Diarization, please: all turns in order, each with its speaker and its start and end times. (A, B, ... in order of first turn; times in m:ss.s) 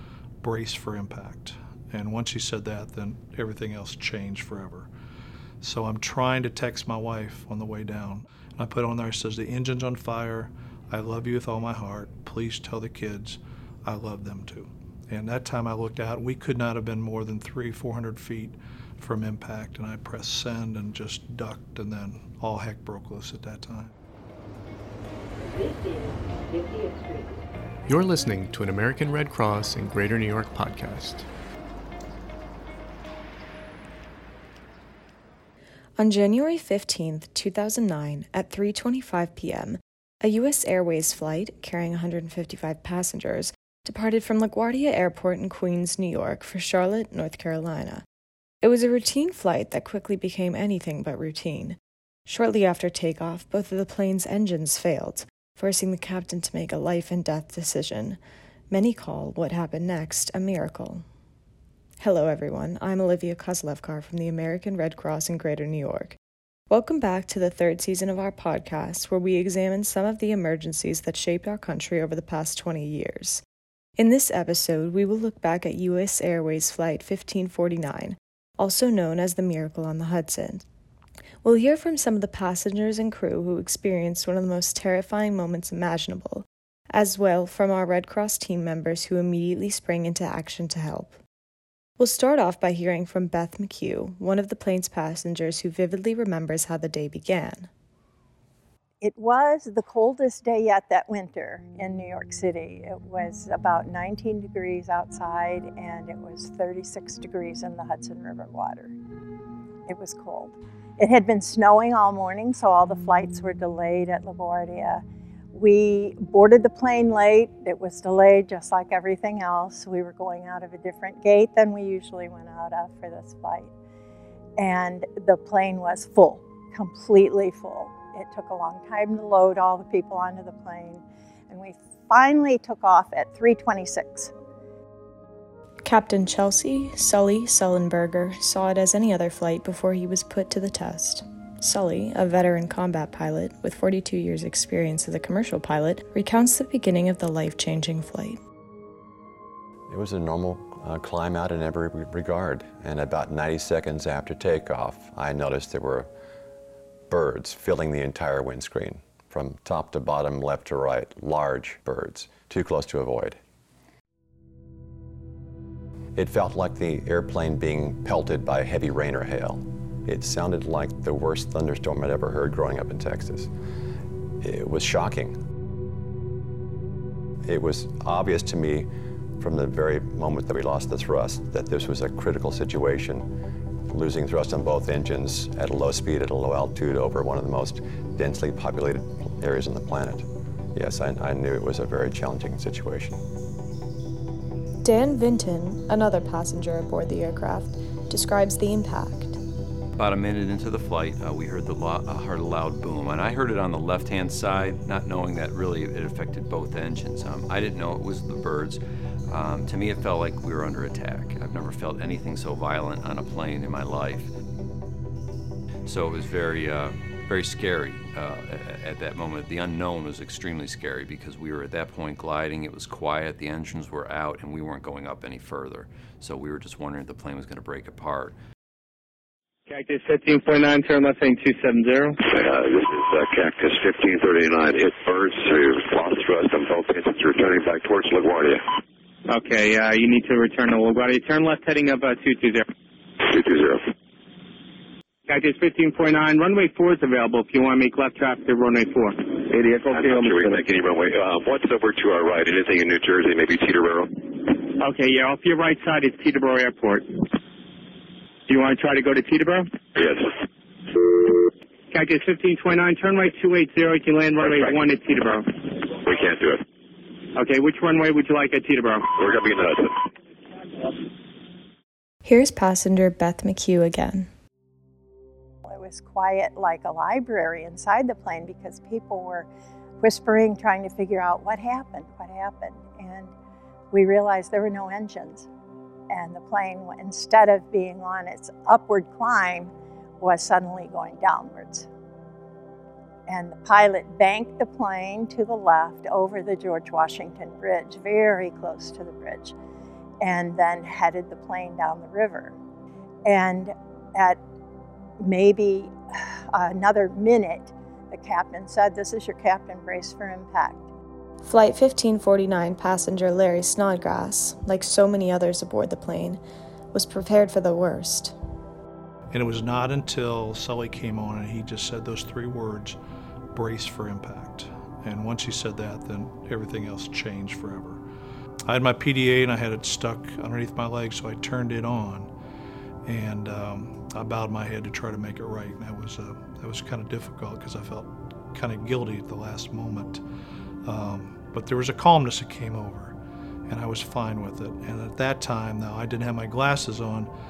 0:00.4-0:04.9 A
0:05.6-0:23.9 A
0:27.9-0:31.3 B
0:36.0-0:48.0 C
0:48.6-0:58.2 C
0:58.7-1:01.0 C
1:02.0-1:06.2 C
1:06.7-1:13.4 C
1:14.0-1:20.6 C
1:21.4-1:31.2 C
1:32.0-1:37.7 C
1:39.0-1:48.9 D
1:49.9-2:03.7 D
2:04.6-2:14.3 D
2:15.8-2:28.4 C
2:29.9-2:36.1 E
2:37.1-2:43.4 E
2:46.1-2:53.5 E
2:54.4-2:55.4 E
2:57.4-3:03.3 E
3:03.9-3:13.2 E
3:14.8-3:19.4 C
3:20.0-3:34.3 F
3:35.8-3:48.3 F
3:49.7-3:52.2 G
3:52.2-3:58.6 H
3:59.3-4:02.7 G
4:03.2-4:03.9 H
4:05.3-4:10.6 G
4:09.5-4:14.3 H
4:14.8-4:17.2 G
4:18.5-4:19.8 G
4:20.0-4:20.3 H
4:21.9-4:25.6 G
4:24.4-4:24.8 H
4:26.0-4:26.6 H
4:27.3-4:29.1 G
4:29.1-4:30.1 H
4:32.2-4:34.3 C
4:35.6-4:39.5 D
4:40.0-4:43.3 D
4:43.9-4:45.5 D
4:46.1-4:51.9 D
4:53.3-4:59.6 D
5:00.2-5:02.6 D
5:03.2-5:04.4 D
5:05.2-5:10.9 D
5:11.4-5:16.4 C
5:16.9-5:18.3 C
5:19.3-5:23.0 A
5:23.5-5:28.0 A
5:28.6-5:32.3 A
5:33.1-5:40.2 A
5:40.8-5:43.1 A
5:43.7-5:47.3 A